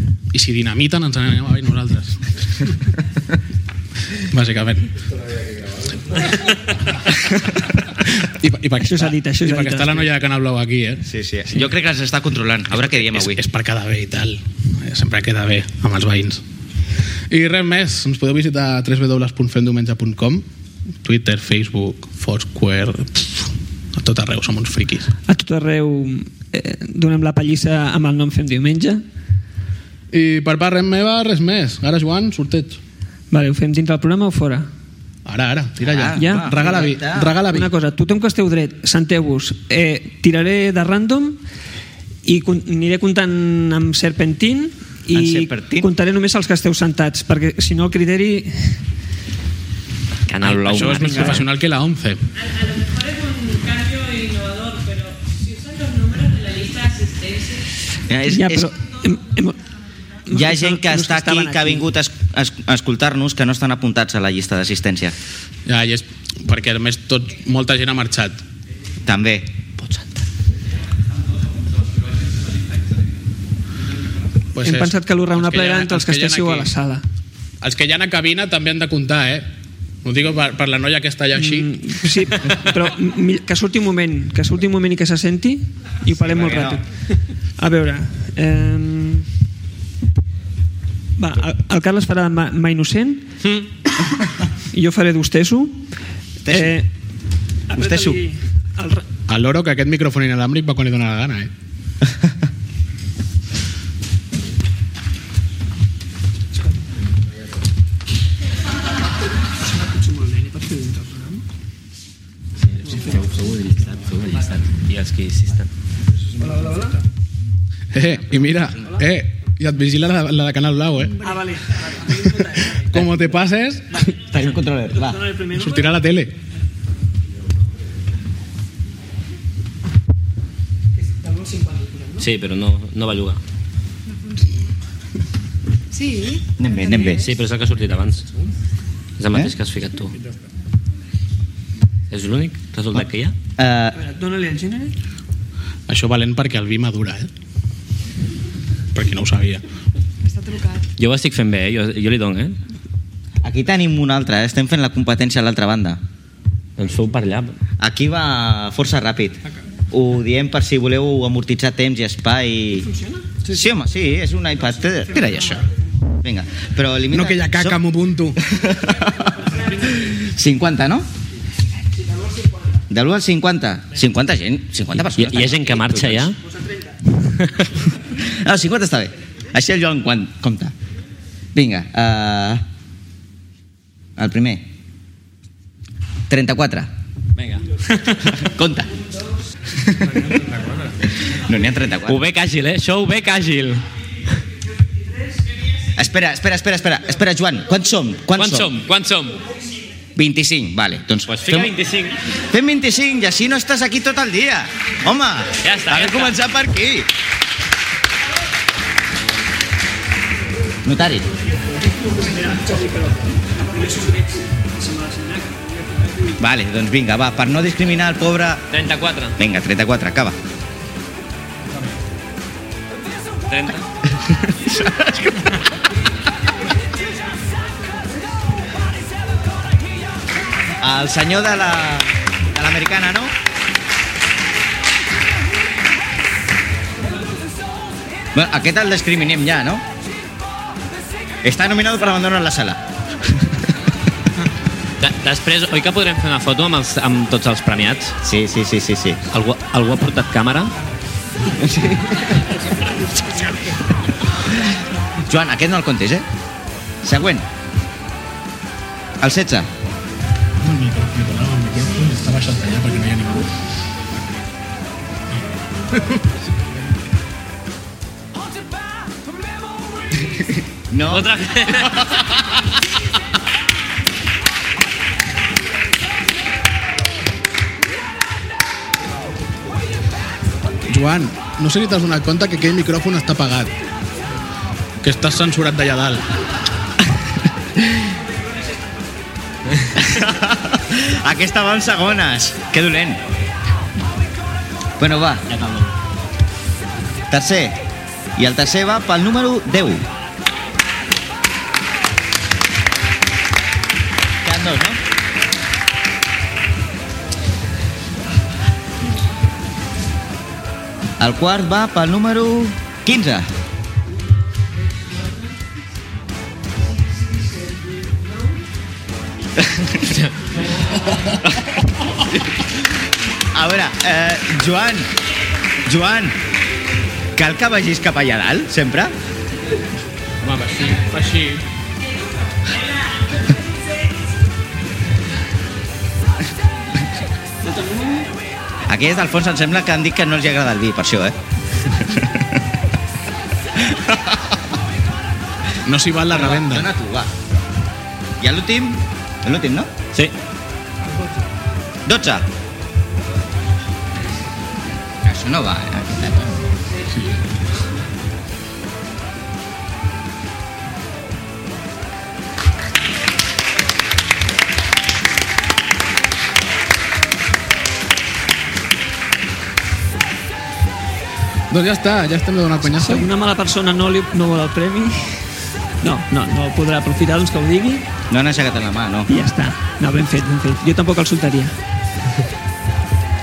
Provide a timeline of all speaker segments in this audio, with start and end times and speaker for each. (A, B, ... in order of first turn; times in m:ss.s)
0:00.3-0:02.7 A
0:04.2-0:04.9 A
0:07.6-0:11.0 A
0:08.8-0:10.1 B
0:11.1-0:13.4 C
0:13.0-0:16.4 A
0:17.3-0:20.4 A
0:21.0-0:25.1 A
0:25.3-0:29.0 B
0:30.1-0:32.8 A
0:33.3-0:34.7 B
0:35.2-0:37.7 A
0:35.8-0:37.3 C
0:36.2-0:36.5 B
0:37.4-0:41.4 B
0:42.2-0:48.8 B
0:45.1-0:45.9 C
0:50.3-0:51.5 D
0:50.4-0:52.2 A
0:50.8-0:51.4 B
0:52.4-0:57.7 E
0:58.1-0:58.7 C
0:58.2-0:59.6 B
1:00.3-1:01.8 B
1:00.3-1:05.2 C
1:05.7-1:08.4 A
1:09.1-1:09.5 C
1:09.8-1:10.2 D
1:14.5-1:16.7 A
1:14.6-1:17.0 B
1:17.6-1:19.4 A
1:20.0-1:22.3 A
1:21.4-1:26.8 B
1:26.1-1:26.8 C
1:27.6-1:29.3 B
1:31.2-1:33.3 B
1:34.7-1:35.9 B
1:36.5-1:36.7 C
1:36.5-1:36.9 B
1:37.7-1:39.1 B
1:37.8-1:38.2 C
1:39.3-1:41.5 A
1:50.2-1:51.2 B
1:52.7-1:55.7 D
1:56.4-1:57.0 B
1:57.9-2:01.3 A
2:01.2-2:02.9 B
2:02.2-2:04.1 A
2:04.2-2:05.3 C
2:05.0-2:05.9 B
2:05.5-2:06.3 A
2:11.1-2:12.2 B
2:12.2-2:13.4 D
2:16.6-2:17.3 C
2:17.0-2:18.3 D
2:19.2-2:20.1 D
2:22.1-2:23.4 D
2:23.6-2:24.0 C
2:23.9-2:25.0 B
2:25.9-2:27.3 A
2:28.9-2:29.6 A
2:31.0-2:32.6 D
2:33.4-2:36.0 C
2:36.8-2:37.6 D
2:37.8-2:39.4 C
2:39.9-2:42.9 C
2:43.4-2:45.7 C
2:46.2-2:47.8 C
2:47.1-2:48.4 A
2:48.4-2:51.1 C
2:52.9-2:56.3 C
2:55.2-2:56.4 D
2:57.3-2:57.7 D
2:58.1-3:00.7 C
3:01.5-3:02.6 C
3:04.2-3:04.7 C
3:06.3-3:06.9 C
3:07.4-3:08.3 D
3:08.4-3:09.0 C
3:11.3-3:12.2 C
3:12.1-3:13.8 D
3:16.0-3:18.7 C
3:18.3-3:19.4 D
3:20.2-3:21.7 C
3:21.3-3:22.2 D
3:22.5-3:27.1 C
3:25.6-3:26.4 D
3:30.8-3:31.3 C
3:33.8-3:34.2 B
3:35.0-3:35.4 B
3:36.4-3:38.6 C
3:38.7-3:39.4 D
3:39.4-3:40.4 C
3:43.5-3:43.9 D
3:44.4-3:45.6 C
3:50.8-3:53.3 C
3:58.3-3:59.8 C
4:01.4-4:02.8 C
4:05.0-4:08.2 D
4:08.2-4:09.2 C
4:09.3-4:10.7 D
4:11.5-4:12.2 C
4:15.2-4:16.3 C
4:17.0-4:17.5 C
4:19.2-4:19.7 C
4:20.6-4:23.5 A
4:25.9-4:26.2 A
4:30.9-4:31.4 C
4:31.1-4:32.1 D
4:40.9-4:43.7 A
4:45.0-4:46.3 A
4:50.0-4:53.2 C
4:55.0-4:55.4 C
4:57.3-4:57.8 C
4:58.4-5:00.1 C
5:04.4-5:05.0 C
5:11.2-5:13.5 C
5:19.6-5:20.0 C
5:23.5-5:25.1 C
5:25.8-5:26.4 C
5:27.4-5:29.2 C
5:30.4-5:31.6 A
5:38.9-5:42.5 C
5:43.8-5:44.5 C
5:45.8-5:46.9 A
5:46.3-5:47.3 C
5:48.4-5:49.9 C
5:52.1-5:52.5 C
5:55.2-5:56.7 C
6:11.7-6:13.3 A
6:12.9-6:15.5 B
6:16.0-6:18.0 B
6:18.3-6:19.3 C
6:19.3-6:21.8 B